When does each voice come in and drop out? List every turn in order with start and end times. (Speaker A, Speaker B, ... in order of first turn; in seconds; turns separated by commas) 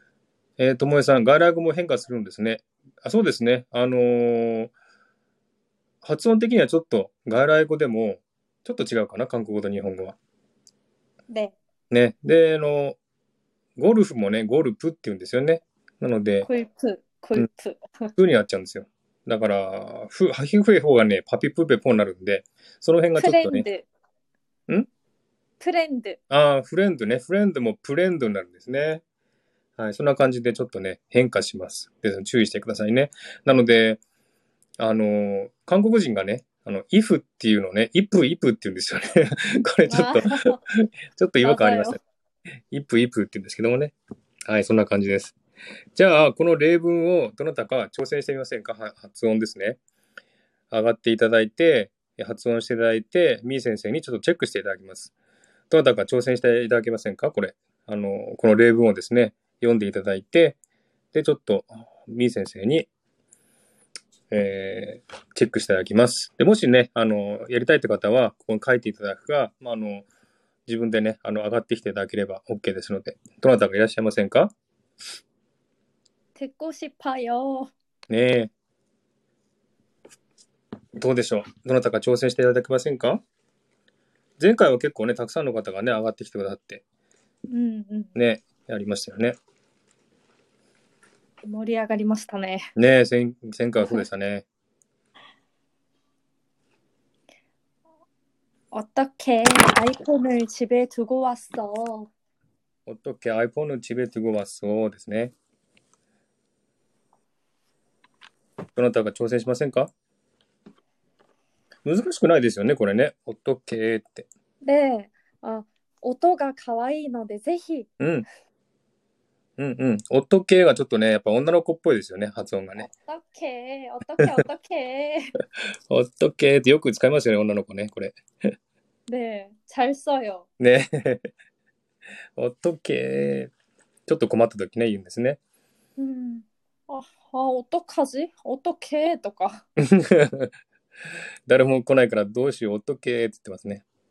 Speaker A: 0.6-4.7, Speaker A: 6.0-10.2, Speaker B: 11.3-11.5, Speaker A: 11.9-12.9, Speaker A: 13.8-16.5, Speaker B: 16.4-18.1, Speaker A: 18.1-23.6, Speaker B: 23.2-23.9, Speaker B: 25.6-26.2, Speaker A: 26.3-29.0, Speaker A: 29.8-34.0, Speaker A: 34.8-42.0, Speaker B: 39.9-40.6, Speaker B: 41.4-42.0, Speaker A: 42.7-43.9, Speaker A: 44.5-45.4, Speaker A: 45.9-49.8, Speaker A: 50.7-55.1, Speaker A: 55.7-60.6, Speaker A: 61.1-62.9, Speaker A: 64.3-70.0, Speaker A: 70.7-74.5, Speaker B: 76.3-77.7, Speaker A: 78.1-78.5, Speaker A: 81.0-83.2, Speaker A: 84.4-86.8, Speaker B: 87.5-88.1, Speaker A: 88.1-89.3, Speaker B: 91.4-92.7, Speaker A: 92.8-94.4, Speaker B: 98.7-102.1, Speaker A: 102.9-105.3, Speaker A: 108.8-109.9, Speaker A: 111.8-114.2, Speaker B: 114.6-117.9, Speaker A: 118.0-118.2, Speaker A: 119.6-122.9, Speaker B: 123.1-125.3, Speaker A: 125.9-128.5, Speaker B: 129.1-130.5, Speaker A: 130.6-131.3, Speaker A: 132.3-133.5, Speaker A: 134.1-135.4, Speaker B: 136.0-139.6, Speaker A: 139.8-140.5, Speaker A: 141.5-143.8